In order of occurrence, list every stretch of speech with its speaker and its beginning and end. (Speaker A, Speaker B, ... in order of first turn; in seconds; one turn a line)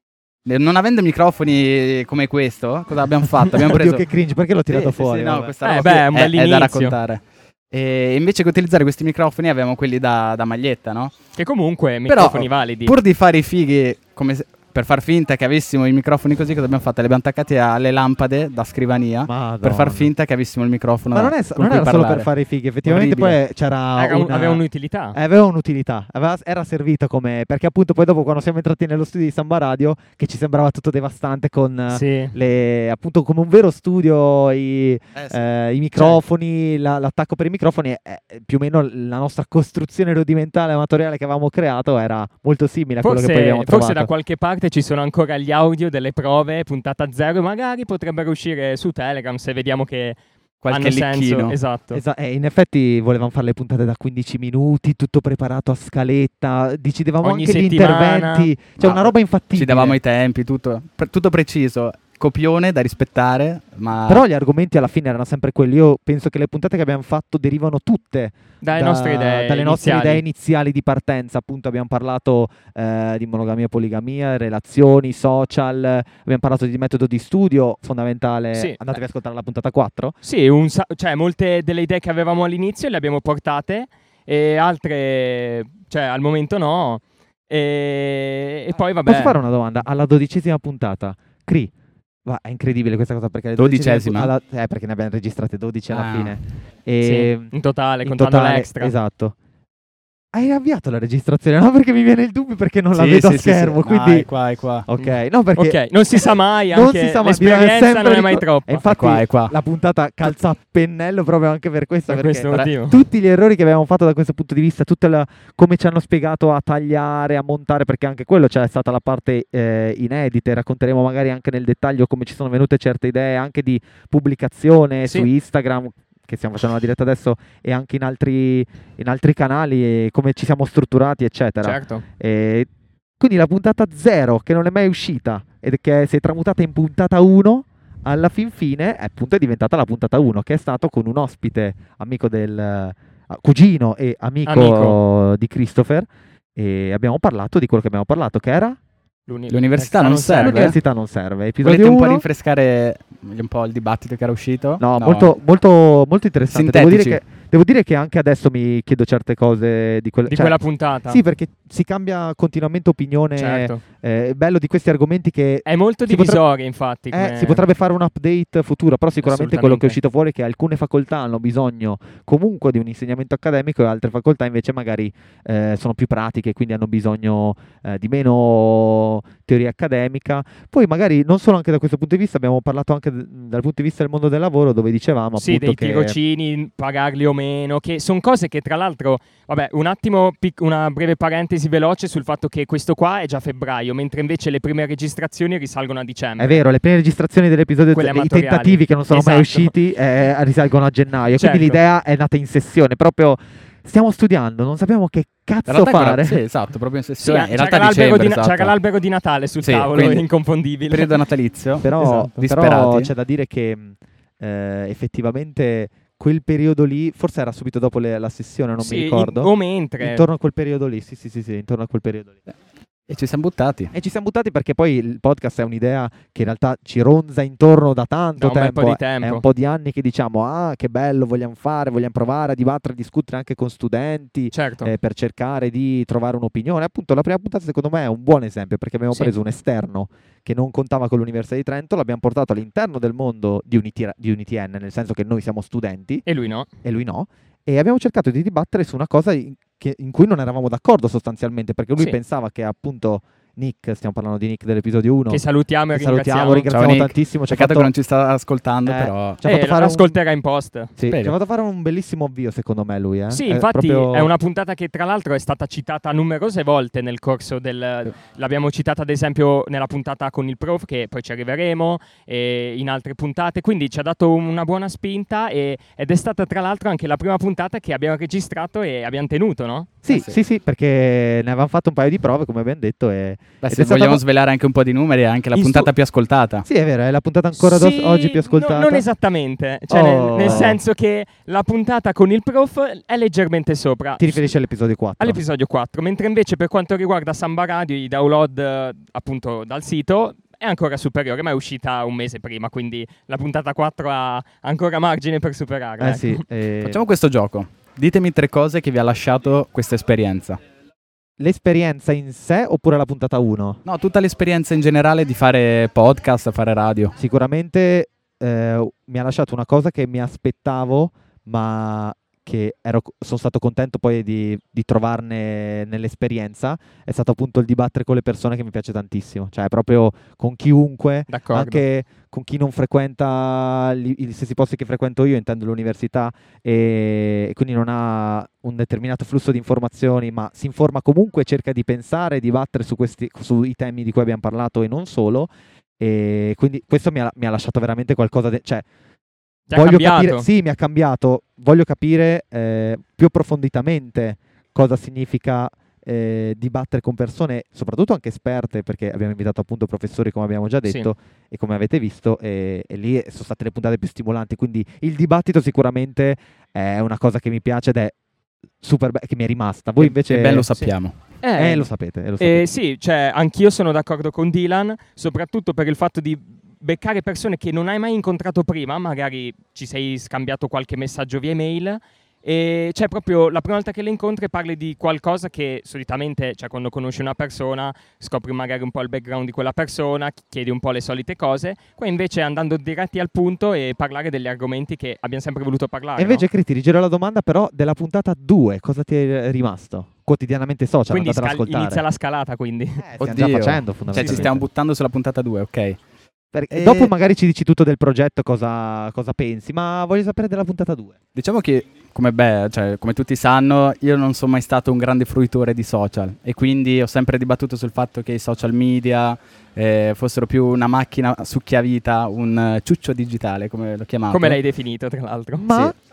Speaker A: 0.5-4.0
Speaker B: 3.5-5.5
Speaker A: 4.7-11.1
Speaker C: 5.6-7.0
Speaker C: 11.3-12.9
Speaker A: 12.1-22.3
Speaker B: 19.3-20.1
Speaker B: 21.1-44.1
Speaker A: 22.8-23.4
Speaker C: 23.9-25.2
Speaker C: 31.9-32.3
Speaker A: 35.1-35.4
Speaker C: 43.0-50.2
Speaker A: 50.6-51.5
Speaker C: 50.7-52.0
Speaker B: 51.9-60.0
Speaker C: 57.2-58.5
Speaker A: 58.8-64.2
Speaker B: 64.1-80.1
Speaker C: 68.6-70.2
Speaker C: 78.5-78.8
Speaker C: 80.2-89.4
Speaker B: 89.0-91.7
Speaker B: 92.2-97.5
Speaker A: 93.6-94.3
Speaker A: 95.9-96.3
Speaker C: 97.0-98.9
Speaker B: 98.0-99.3
Speaker B: 100.3-104.3
Speaker A: 102.9-104.8
Speaker B: 104.9-106.2
Speaker C: 105.0-108.9
Speaker B: 106.7-132.7
Speaker A: 108.9-109.5
Speaker C: 112.1-113.0
Speaker C: 131.6-132.0
Speaker B: 133.2-148.8
Speaker C: 144.5-144.9
Speaker C: 149.3-150.8
Speaker A: 149.5-150.8
Speaker B: 150.4-152.2
Speaker A: 151.6-155.3
Speaker B: 154.8-160.6
Speaker A: 156.5-157.2
Speaker C: 160.3-161.2
Speaker B: 161.1-166.4
Speaker C: 163.4-163.8
Speaker C: 165.7-167.6
Speaker B: 167.1-186.2
Speaker C: 169.2-170.0
Speaker C: 185.4-196.6
Speaker B: 196.4-206.4
Speaker C: 197.9-199.7
Speaker C: 201.3-201.8
Speaker A: 205.7-208.7
Speaker C: 207.2-211.1
Speaker A: 209.6-210.2
Speaker A: 210.9-213.1
Speaker B: 211.8-222.4
Speaker C: 218.8-220.2
Speaker A: 223.1-223.9
Speaker B: 223.9-246.2
Speaker C: 228.4-229.4
Speaker C: 234.5-234.9
Speaker C: 246.2-246.7
Speaker B: 246.8-257.9
Speaker C: 255.3-256.7
Speaker A: 256.7-259.4
Speaker B: 258.9-260.1
Speaker C: 259.4-260.9
Speaker B: 261.0-264.3
Speaker A: 261.1-261.3
Speaker C: 263.3-280.0
Speaker B: 280.0-284.2
Speaker A: 283.6-286.6
Speaker C: 285.5-285.9
Speaker B: 286.6-289.1
Speaker C: 287.6-294.4
Speaker B: 289.9-290.8
Speaker A: 290.4-290.7
Speaker B: 294.2-295.4
Speaker C: 295.2-306.4
Speaker B: 306.0-307.0
Speaker A: 306.8-310.6
Speaker B: 311.4-313.8
Speaker A: 313.8-317.1
Speaker B: 317.2-348.9
Speaker C: 331.3-331.8
Speaker C: 349.7-350.4
Speaker B: 349.7-368.1
Speaker B: 368.8-370.7
Speaker A: 370.0-371.1
Speaker C: 371.4-396.4
Speaker B: 371.6-372.6
Speaker B: 396.2-402.0
Speaker C: 401.1-403.1
Speaker B: 403.0-404.6
Speaker A: 403.2-406.0
Speaker C: 404.1-404.5
Speaker B: 406.5-411.1
Speaker A: 406.7-407.1
Speaker A: 411.3-424.6
Speaker C: 424.3-425.9
Speaker B: 425.6-425.9